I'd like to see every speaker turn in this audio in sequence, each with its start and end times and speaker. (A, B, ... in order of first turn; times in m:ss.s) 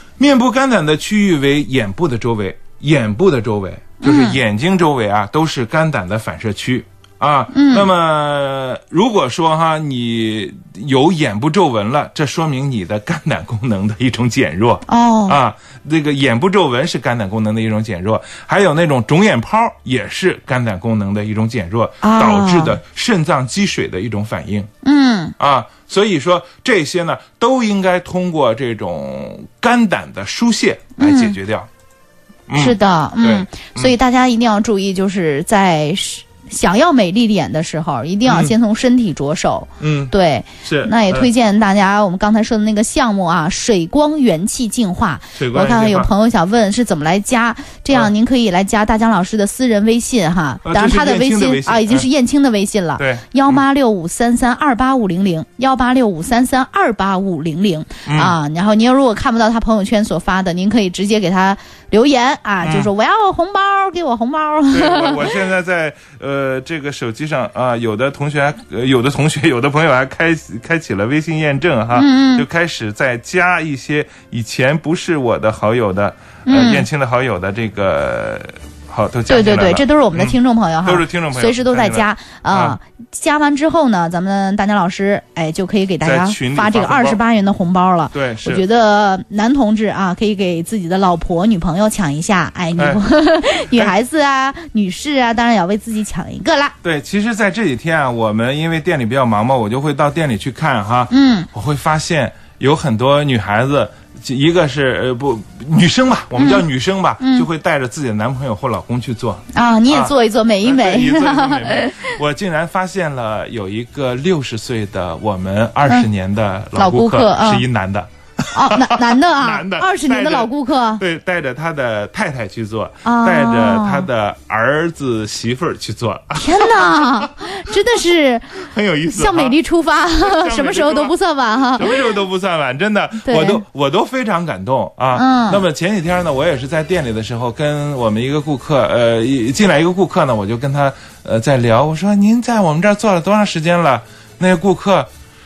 0:00.2-0:24.7 A
0:04.0-0:04.4 B
0:07.5-0:07.9 B
0:14.9-0:15.4 B
0:22.0-0:22.8 B
0:24.8-0:25.3 B
0:25.4-0:31.7 A
0:31.0-0:31.4 B
0:32.5-0:33.9 A
0:32.6-1:05.3 B
0:38.2-0:38.5 A
0:39.8-0:40.1 A
0:40.6-0:41.3 A
0:45.3-0:46.1 A
0:50.6-0:52.1 A
0:53.0-0:53.6 A
0:58.1-0:58.4 A
1:02.6-1:02.9 A
1:04.7-1:22.8 A
1:11.9-1:12.4 B
1:16.4-1:16.8 B
1:19.3-1:36.7 B
1:26.0-1:27.2 A
1:28.1-1:28.6 A
1:36.8-2:07.4 A
1:41.1-1:41.5 B
1:46.4-1:46.6 B
1:47.2-1:47.5 B
1:49.5-1:52.0 B
1:56.7-1:57.6 B
1:58.5-2:01.0 B
2:03.0-2:04.1 B
2:06.3-2:11.9 B
2:08.6-2:11.1 A
2:11.7-2:25.1 A
2:13.2-2:13.6 B
2:15.1-2:15.6 B